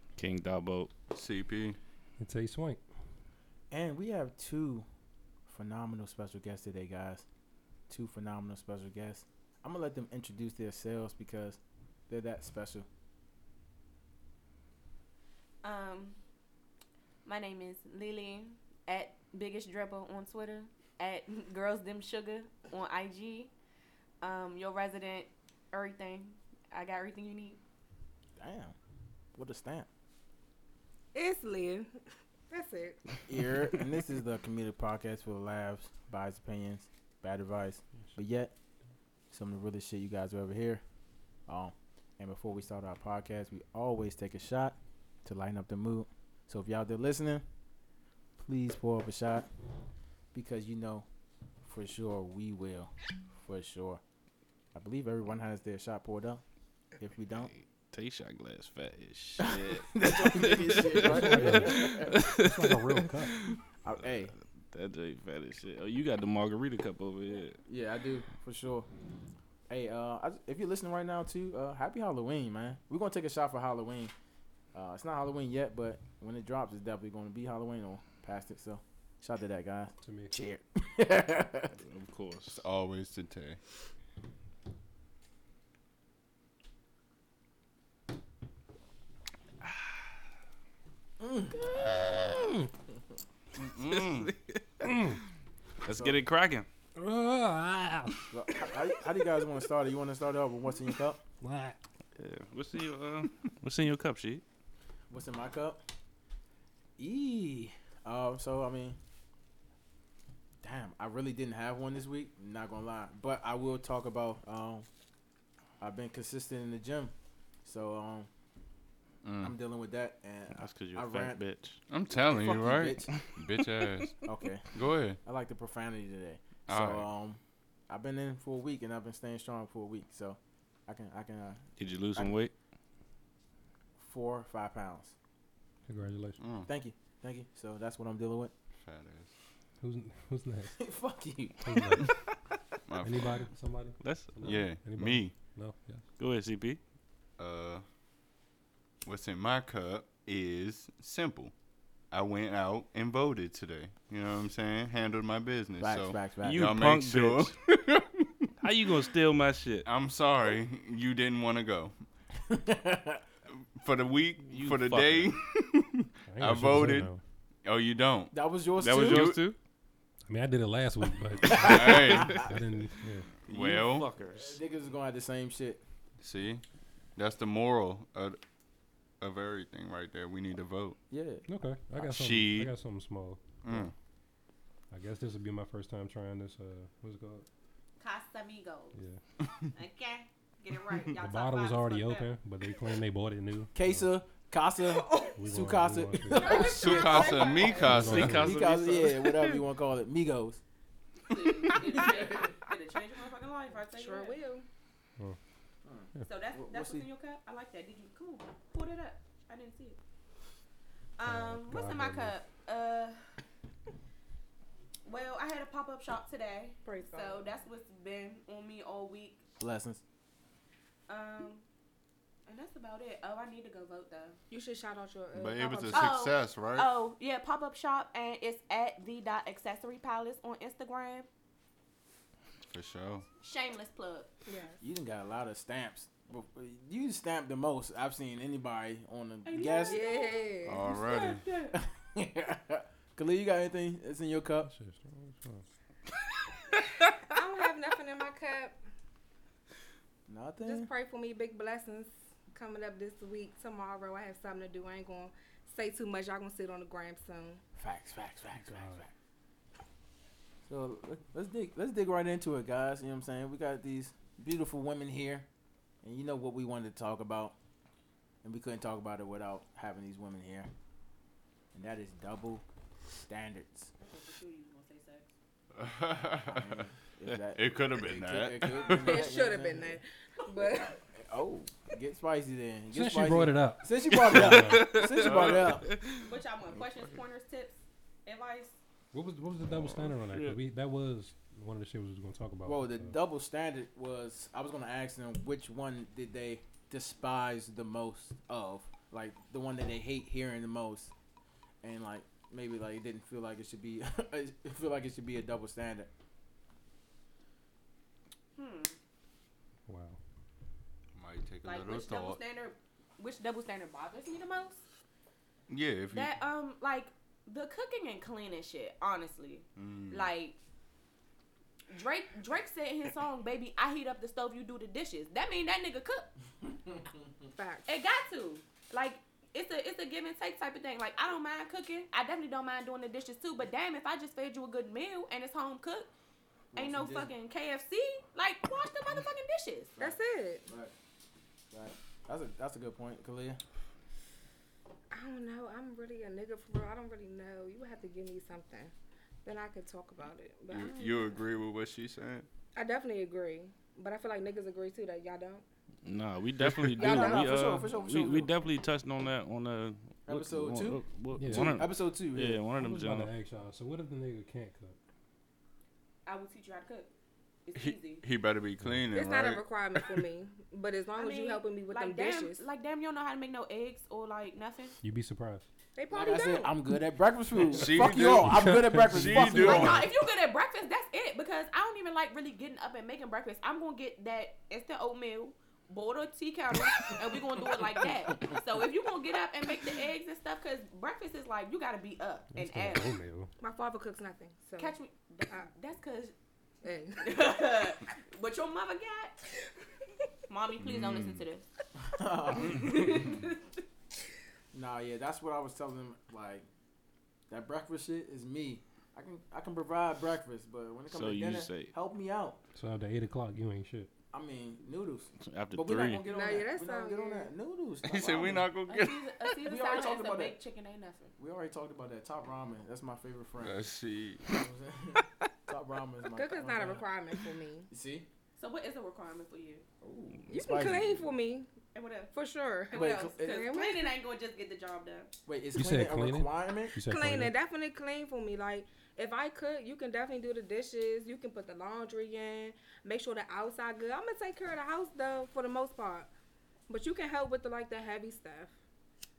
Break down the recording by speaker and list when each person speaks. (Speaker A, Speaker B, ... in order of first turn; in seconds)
Speaker A: 0.2-0.9, 57.4-63.6, 64.7-67.6, 81.8-82.6, 93.8-94.9, 95.8-96.7, 102.2-104.4, 120.5-121.8, 123.1-124.1, 131.8-132.5, 144.0-144.7, 146.2-146.8, 156.4-157.6, 158.6-159.9, 164.5-165.3, 168.8-169.6, 173.5-174.6, 197.9-199.6, 284.1-286.2, 289.7-290.6, 356.0-363.3, 411.1-411.9, 415.4-416.2
Speaker B: 1.1-1.8, 82.5-83.6, 93.6-94.3, 119.2-119.5, 121.9-124.2, 124.7-125.2, 126.7-127.1, 136.4-136.7, 138.8-139.3, 142.9-143.5, 144.4-145.4, 147.4-147.8, 149.0-151.5, 152.1-158.4, 159.8-161.9, 163.6-167.1, 167.6-169.4, 171.5-172.5, 173.4-174.1, 176.2-176.6, 177.2-178.4, 179.2-181.0, 181.9-182.7, 183.6-183.9, 196.6-198.5, 225.3-226.9, 232.7-233.2, 240.6-241.4, 275.7-276.9, 277.5-279.2, 285.1-285.7, 311.1-312.4, 315.7-316.3, 319.8-320.3, 350.7-352.5, 367.7-370.2, 377.7-380.0, 400.8-401.4, 418.0-419.3, 423.6-424.4
Speaker C: 2.2-2.8, 60.9-63.4, 80.0-80.3, 94.8-95.2, 97.0-98.2, 101.4-101.8, 135.9-136.4, 139.8-140.8, 141.6-142.2, 143.0-146.0, 166.3-167.2, 170.2-173.3, 181.5-183.9, 184.9-187.4, 188.9-189.2, 191.2-194.1, 195.4-196.6, 197.8-198.6, 211.2-212.4, 244.6-245.6, 258.6-259.0, 282.9-284.9, 289.1-293.1, 309.9-310.2, 361.4-361.9, 362.8-365.0, 375.0-375.6, 378.2-380.1, 392.5-393.5, 412.7-414.1, 435.7-437.5
Speaker D: 3.7-4.8, 5.5-7.2, 7.9-12.9, 28.4-28.8, 29.3-29.9, 33.3-38.5, 39.3-40.8, 41.5-47.4, 48.4-49.5, 50.3-51.1, 51.6-54.0, 54.7-56.4, 57.0-57.5, 59.4-62.1, 63.8-64.3, 67.6-68.9, 69.7-74.1, 74.7-81.8, 91.2-92.3, 95.9-96.2, 98.3-101.2, 105.1-105.8, 107.0-109.0, 110.6-114.9, 115.8-118.3, 119.4-121.4, 122.3-123.1, 124.2-124.7, 125.2-132.4, 134.0-135.1, 136.7-138.5, 140.8-142.1, 155.8-156.8, 162.5-163.2, 168.3-169.3, 171.4-172.5, 174.3-175.8, 181.1-181.4, 193.7-200.6, 201.9-202.3, 205.8-207.1, 219.6-220.0, 234.8-240.0, 241.7-244.7, 250.3-250.9, 257.8-259.1, 260.6-265.5, 266.0-267.5, 268.4-270.7, 271.7-272.6, 273.3-273.9, 276.4-280.0, 281.1-285.9, 292.6-301.1, 301.8-306.1, 326.6-327.4, 336.7-337.3, 340.7-340.9, 341.7-343.6, 356.8-358.5, 360.3-362.6, 376.1-380.1, 402.0-403.4, 404.7-406.7, 407.5-412.6, 414.3-418.7, 419.6-420.6, 421.4-423.8, 424.4-427.1, 427.9-428.3, 430.0-431.3, 432.9-433.6, 435.5-436.9
Speaker E: 15.6-16.2, 17.2-23.5, 24.2-27.6, 188.0-189.0, 189.7-192.3, 196.3-197.9, 201.2-204.4, 206.2-210.0, 211.2-213.2, 215.1-219.4, 221.1-221.6, 222.5-224.4, 225.9-231.3, 233.4-234.3, 239.4-241.8, 274.0-275.3, 286.2-288.8, 308.6-308.9, 311.6-314.8, 316.1-320.6, 321.9-326.3, 327.9-336.1, 336.7-339.9, 366.2-367.1, 367.6-368.2, 371.1-375.0, 379.6-393.2, 394.8-396.3, 397.2-399.4, 400.5-401.6, 402.7-403.5, 418.9-421.3, 428.6-429.9, 431.9-432.3, 432.9-435.3
Speaker F: 31.1-32.0, 32.5-33.0, 196.6-197.3, 203.9-204.7, 216.8-217.5, 224.5-226.2, 234.5-234.8, 239.8-240.9, 247.3-248.8, 250.6-257.6, 278.8-281.0, 327.5-327.9, 340.0-340.7, 345.1-348.9, 349.4-351.4, 352.7-355.6, 356.9-357.7, 369.1-372.6, 375.9-376.7, 393.6-394.9, 396.8-397.5, 416.3-417.5, 426.3-427.9, 430.5-431.7, 432.3-434.1, 437.0-446.3, 446.9-448.7